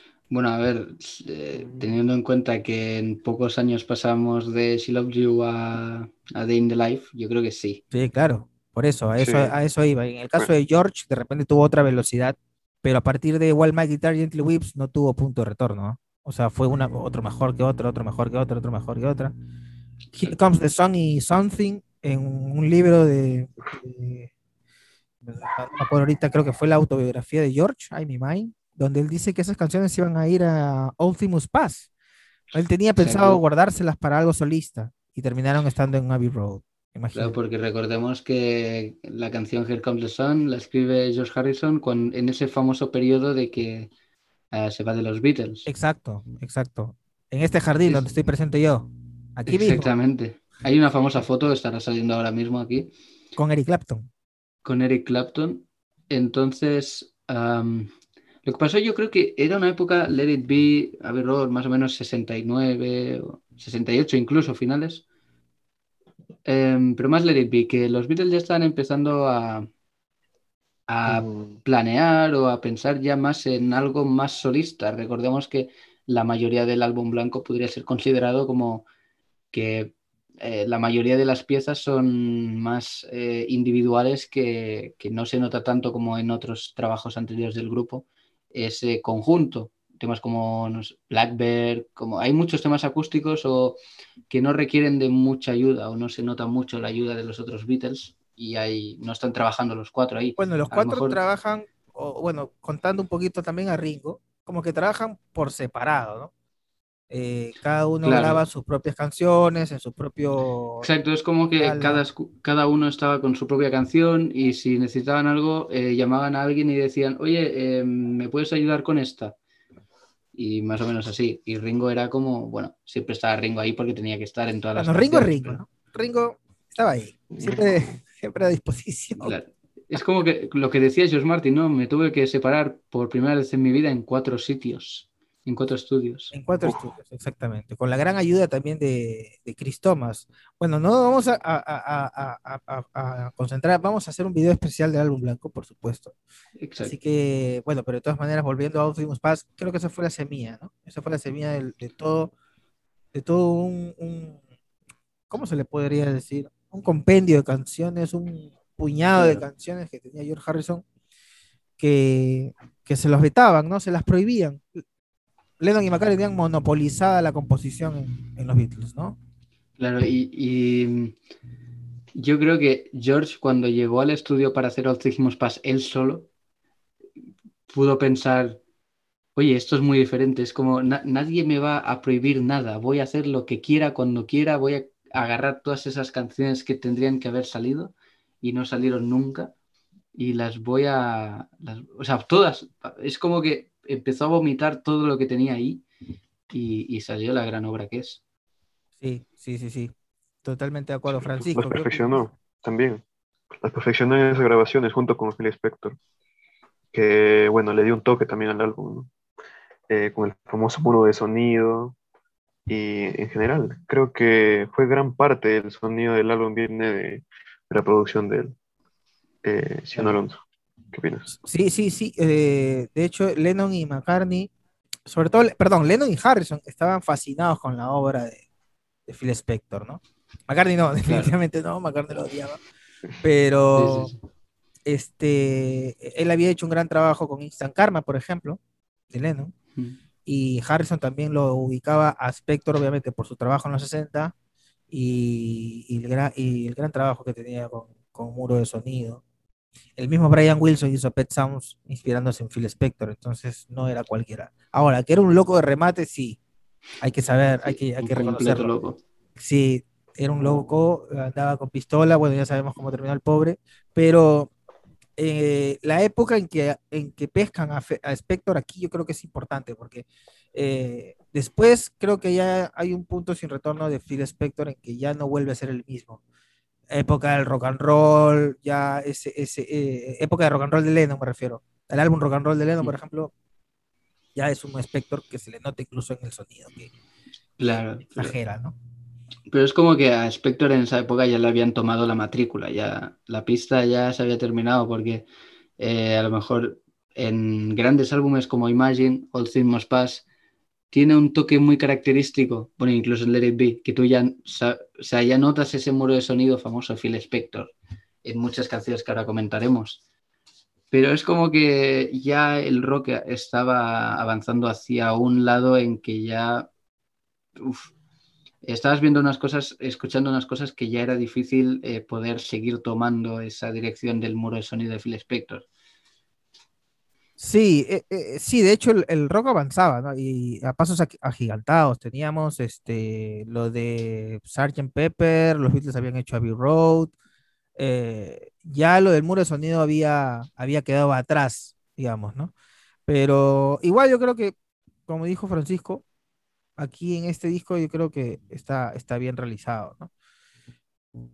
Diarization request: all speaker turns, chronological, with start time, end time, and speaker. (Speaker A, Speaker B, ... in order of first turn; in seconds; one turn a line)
Speaker A: 0.3-7.8
Speaker B: 1.5-1.9
Speaker C: 7.9-19.3
Speaker B: 9.2-9.5
Speaker C: 20.1-24.3
Speaker C: 25.2-31.9
Speaker C: 32.5-37.3
Speaker A: 33.0-33.4
Speaker A: 37.1-43.9
Speaker A: 44.5-45.7
Speaker C: 45.7-49.9
Speaker A: 49.5-52.9
Speaker C: 53.4-54.1
Speaker A: 54.6-57.9
Speaker A: 58.4-65.0
Speaker A: 66.4-69.7
Speaker A: 70.9-78.8
Speaker B: 71.0-71.6
Speaker A: 79.5-93.8
Speaker A: 94.3-101.2
Speaker C: 100.4-106.3
Speaker C: 107.1-110.9
Speaker A: 108.0-108.4
Speaker A: 110.8-119.3
Speaker C: 111.6-112.0
Speaker A: 120.3-125.6
Speaker C: 124.8-129.3
Speaker B: 127.3-128.0
Speaker A: 129.2-136.3
Speaker C: 136.3-146.2
Speaker A: 146.6-146.9
Speaker C: 146.8-152.3
Speaker C: 153.1-154.4
Speaker C: 155.3-160.8
Speaker A: 159.2-159.4
Speaker C: 161.8-164.7
Speaker C: 165.6-169.2
Speaker A: 169.8-171.2
Speaker A: 172.1-176.3
Speaker A: 177.7-178.6
Speaker A: 179.3-189.5
Speaker A: 190.1-195.8
Speaker A: 196.5-198.2
Speaker C: 199.0-199.9
Speaker C: 200.4-202.2
Speaker B: 201.1-203.0
Speaker B: 203.6-206.0
Speaker B: 206.9-209.1
Speaker B: 209.9-211.9
Speaker B: 212.7-218.5
Speaker B: 219.4-220.4
Speaker B: 220.9-221.3
Speaker C: 221.4-224.5
Speaker C: 225.1-228.4
Speaker C: 229.1-232.6
Speaker A: 231.1-231.3
Speaker C: 233.2-234.1
Speaker A: 233.7-234.2
Speaker C: 234.8-238.6
Speaker C: 239.1-239.5
Speaker C: 240.2-244.3
Speaker C: 244.9-249.2
Speaker C: 250.0-256.4
Speaker C: 257.0-258.7
Speaker A: 257.6-259.0
Speaker C: 259.4-264.5
Speaker C: 265.2-276.2
Speaker C: 276.9-283.3
Speaker C: 284.3-286.9
Speaker A: 287.6-288.3
Speaker C: 288.0-288.8
Speaker A: 289.5-295.2
Speaker A: 295.8-300.2
Speaker A: 300.9-307.7
Speaker A: 308.2-310.0
Speaker A: 310.9-316.7
Speaker A: 317.6-317.9
Speaker A: 318.6-325.6
Speaker C: 327.4-337.1
Speaker C: 337.8-342.5
Speaker C: 343.1-344.5
Speaker C: 345.1-346.0
Speaker C: 346.8-350.1